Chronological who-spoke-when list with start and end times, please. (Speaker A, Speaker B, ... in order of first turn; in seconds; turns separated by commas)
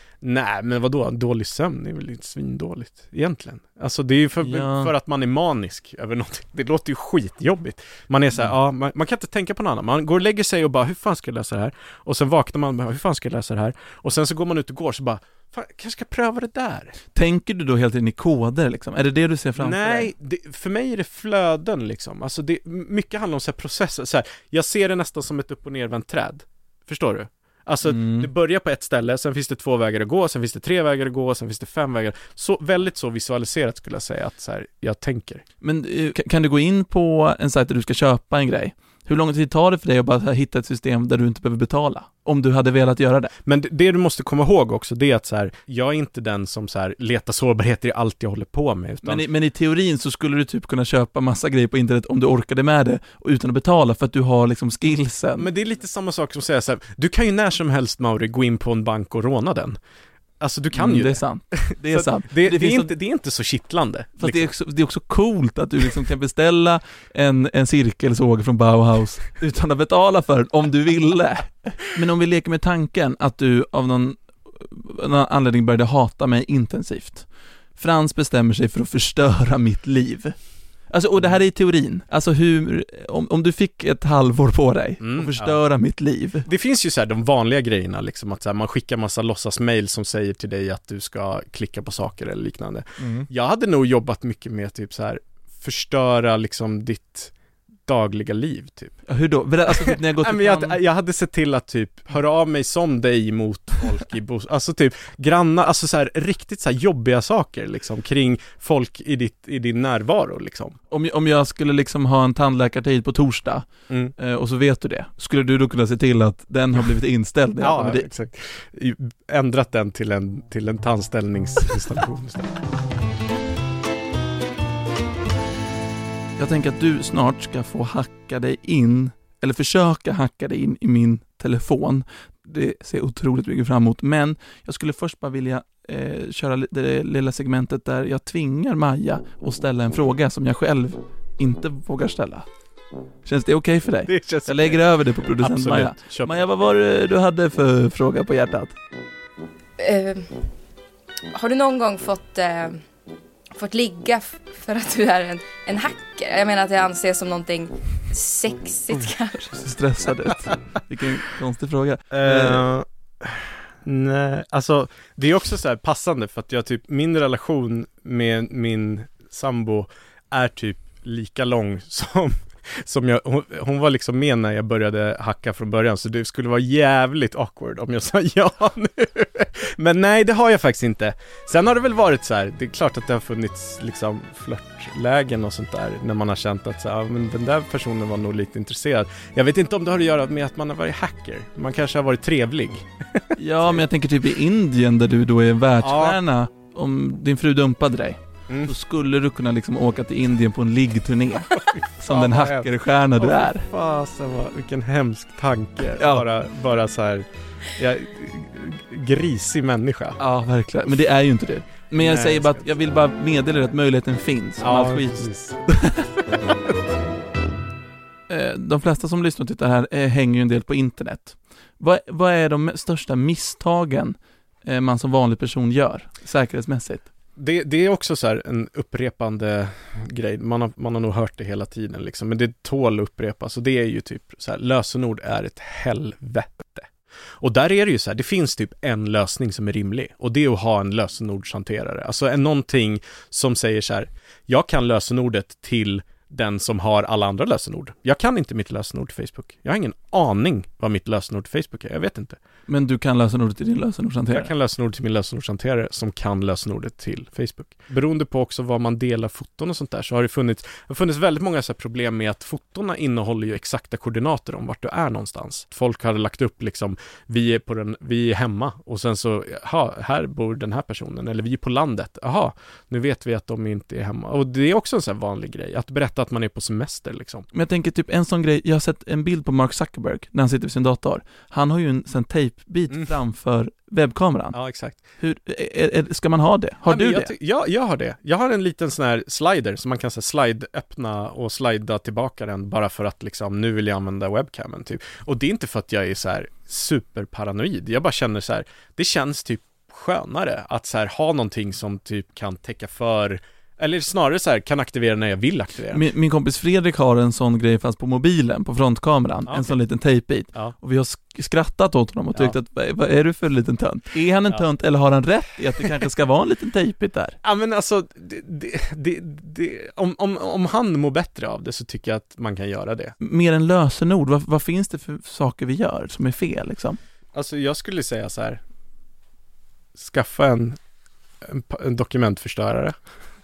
Speaker A: 0.2-16.9, Speaker B: 4.4-4.9, Speaker B: 17.1-20.1, Speaker A: 19.6-35.4, Speaker B: 27.8-28.3, Speaker B: 35.6-43.3, Speaker A: 43.4-49.2, Speaker B: 49.0-55.5, Speaker A: 55.4-59.8, Speaker A: 60.4-64.5, Speaker B: 60.7-62.9, Speaker B: 64.2-86.5, Speaker A: 85.0-85.6, Speaker A: 86.5-97.3, Speaker B: 93.0-93.3, Speaker A: 97.9-99.0, Speaker B: 99.1-100.8, Speaker A: 99.7-110.8, Speaker B: 110.9-118.1, Speaker A: 113.9-114.1, Speaker A: 117.6-122.6, Speaker B: 126.4-142.4, Speaker B: 143.2-148.7, Speaker A: 144.1-146.4, Speaker C: 149.8-150.4, Speaker C: 151.3-152.8, Speaker C: 153.5-159.6, Speaker B: 159.6-162.7, Speaker A: 162.1-193.8, Speaker B: 193.4-203.7, Speaker A: 195.8-196.2, Speaker A: 201.5-210.2, Speaker B: 206.0-206.2, Speaker B: 210.2-216.1, Speaker A: 212.0-212.7, Speaker A: 214.6-215.6, Speaker B: 218.3-227.1, Speaker A: 227.3-236.9, Speaker A: 237.4-252.4, Speaker B: 252.7-254.5, Speaker A: 254.3-277.5, Speaker B: 277.5-284.6, Speaker A: 284.5-285.0, Speaker B: 285.2-287.3, Speaker A: 286.9-306.0, Speaker B: 305.9-317.4, Speaker A: 309.5-309.7, Speaker A: 317.4-323.1, Speaker B: 323.2-327.0, Speaker A: 327.3-328.6, Speaker A: 330.0-330.8, Speaker A: 331.4-333.0